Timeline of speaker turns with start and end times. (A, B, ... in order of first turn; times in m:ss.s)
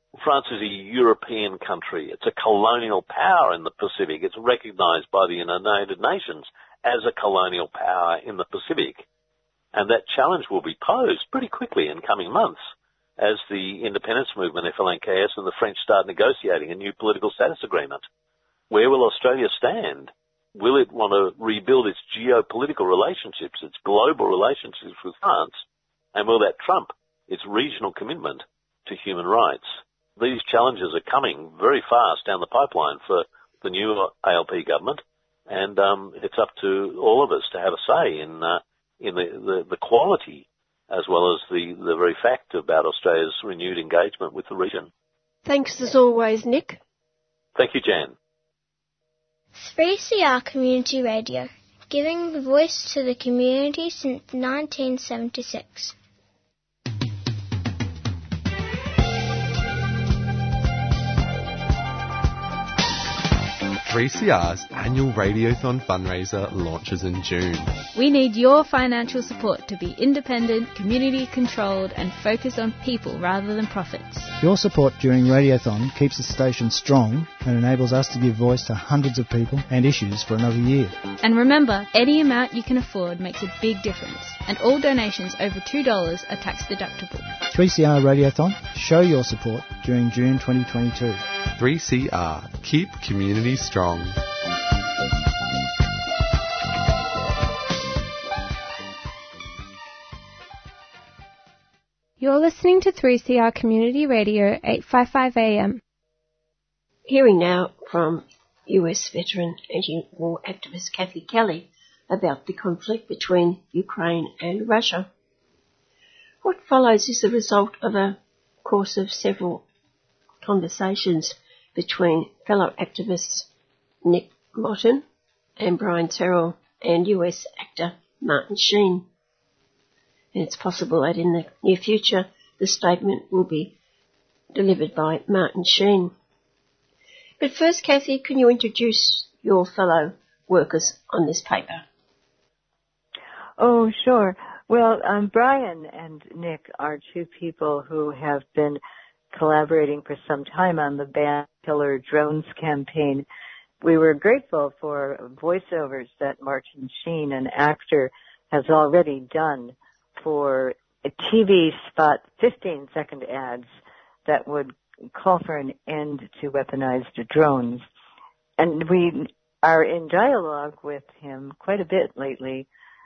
0:00.2-0:09.0 A
0:09.7-0:12.6 A
0:13.2-0:18.0 A
0:18.7-0:25.6 A
0:26.1-0:44.9 A
0:45.4-0:46.8 B
0:47.6-0:48.2 A
0:49.6-0:55.9 C
1:03.8-1:07.8 D
1:07.9-1:14.3 E
1:14.4-1:21.0 F
1:21.2-1:27.3 E
1:27.5-1:31.3 F
1:31.6-1:34.2 D
1:42.2-1:45.8 G
1:47.1-1:55.1 B
1:56.4-1:59.6 B
2:00.4-2:03.5 B
2:04.0-2:05.0 B
2:05.6-2:09.1 B
2:10.3-2:13.7 B
2:14.5-2:16.1 B
2:17.4-2:21.8 B
2:23.6-2:28.8 H
2:29.3-2:33.3 H
2:33.8-2:43.7 H
2:44.3-2:47.8 H
2:48.6-2:52.7 H